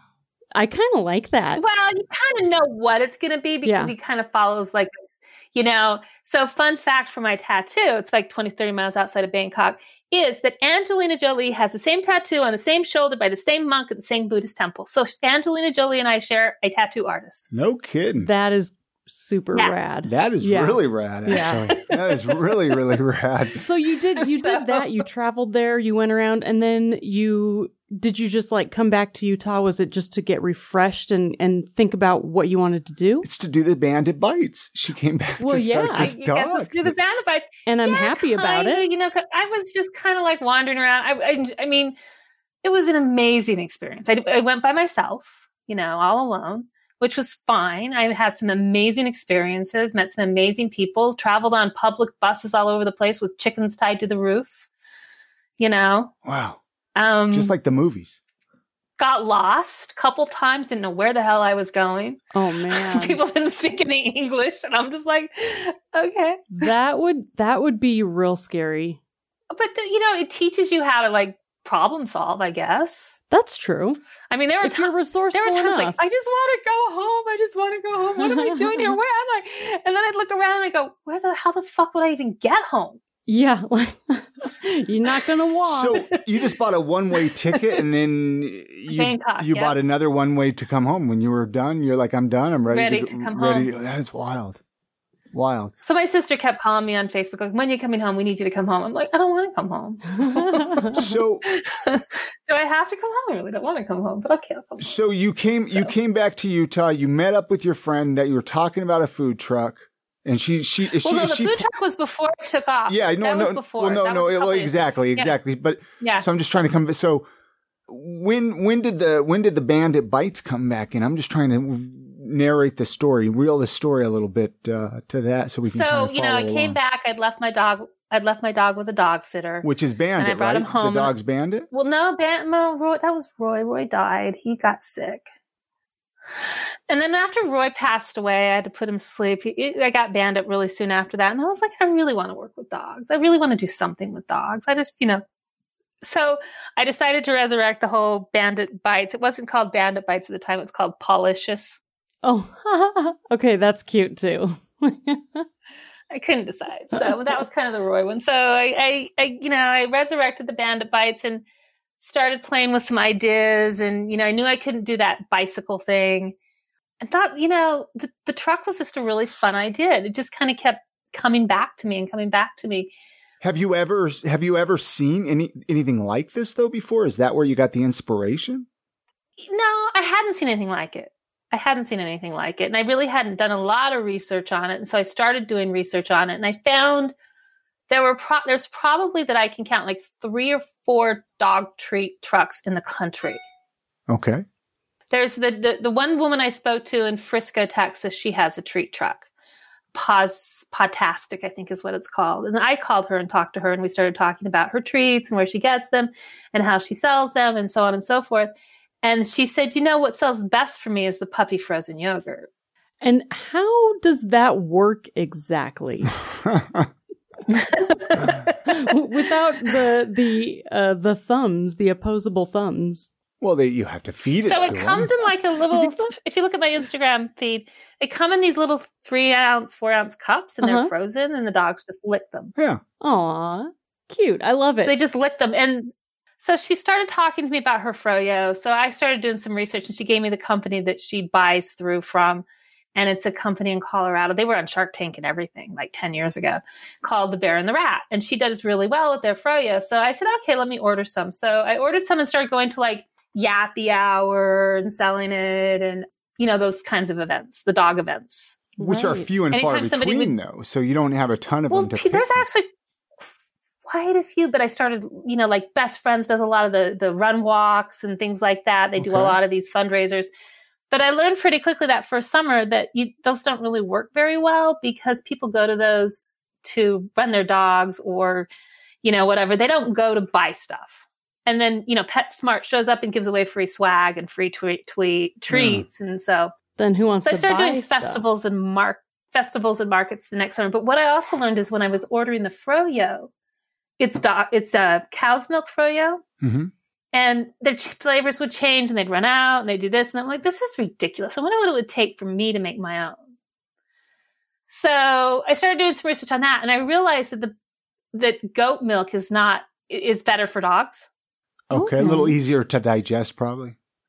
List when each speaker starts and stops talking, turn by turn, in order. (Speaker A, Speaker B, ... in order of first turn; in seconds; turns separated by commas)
Speaker A: 0.6-1.6, Speaker B: 1.6-5.0, Speaker A: 3.6-3.9, Speaker B: 5.5-17.5, Speaker C: 17.5-18.3, Speaker A: 18.2-21.7, Speaker C: 20.0-23.6, Speaker B: 21.7-22.8, Speaker A: 23.5-33.2, Speaker B: 24.2-25.0, Speaker C: 33.2-36.9, Speaker A: 35.4-36.1, Speaker B: 35.9-41.9, Speaker A: 37.6-38.8, Speaker B: 42.6-54.7, Speaker B: 55.6-56.1, Speaker C: 56.2-56.6, Speaker B: 57.0-57.5, Speaker C: 57.3-58.2, Speaker B: 59.0-66.7, Speaker A: 62.3-63.2, Speaker A: 66.5-69.0, Speaker B: 69.5-73.2, Speaker A: 73.3-74.0, Speaker B: 74.3-83.0, Speaker A: 74.6-76.0, Speaker A: 78.2-78.9, Speaker A: 83.3-86.0, Speaker C: 85.7-94.6, Speaker B: 88.9-89.8, Speaker B: 92.7-93.7, Speaker C: 95.3-95.7, Speaker B: 95.8-105.0, Speaker A: 100.2-101.0, Speaker C: 100.9-101.4, Speaker C: 104.8-111.7, Speaker B: 110.9-115.3, Speaker C: 112.9-117.2, Speaker B: 116.0-116.2, Speaker C: 117.9-126.8, Speaker B: 125.7-131.1, Speaker C: 129.6-131.7, Speaker B: 131.7-135.2, Speaker B: 136.4-145.2, Speaker B: 146.0-151.8, Speaker A: 152.2-155.5, Speaker B: 156.1-161.4, Speaker A: 156.9-157.3, Speaker B: 162.0-166.3, Speaker B: 167.0-172.9, Speaker C: 173.4-178.7, Speaker B: 179.5-187.1, Speaker B: 187.9-193.4, Speaker C: 194.1-194.4, Speaker B: 195.1-199.3, Speaker B: 199.9-208.5, Speaker B: 209.0-212.5, Speaker A: 213.0-216.1, Speaker C: 216.4-216.9, Speaker B: 217.5-218.6, Speaker A: 218.7-223.1, Speaker C: 223.4-225.3, Speaker B: 224.4-232.5, Speaker A: 230.6-230.9, Speaker A: 233.0-234.9, Speaker B: 234.8-258.7, Speaker A: 258.8-259.3, Speaker C: 258.8-262.5, Speaker B: 259.5-260.3, Speaker B: 261.7-262.7, Speaker B: 263.9-270.3, Speaker C: 269.0-269.4, Speaker B: 270.9-278.5, Speaker B: 279.0-286.5, Speaker C: 285.5-285.9, Speaker A: 286.8-288.2, Speaker B: 287.2-293.3, Speaker B: 294.0-296.2, Speaker C: 296.4-296.7, Speaker B: 297.1-303.2, Speaker B: 304.7-307.5, Speaker B: 308.1-311.1, Speaker C: 311.7-313.8, Speaker A: 311.7-312.3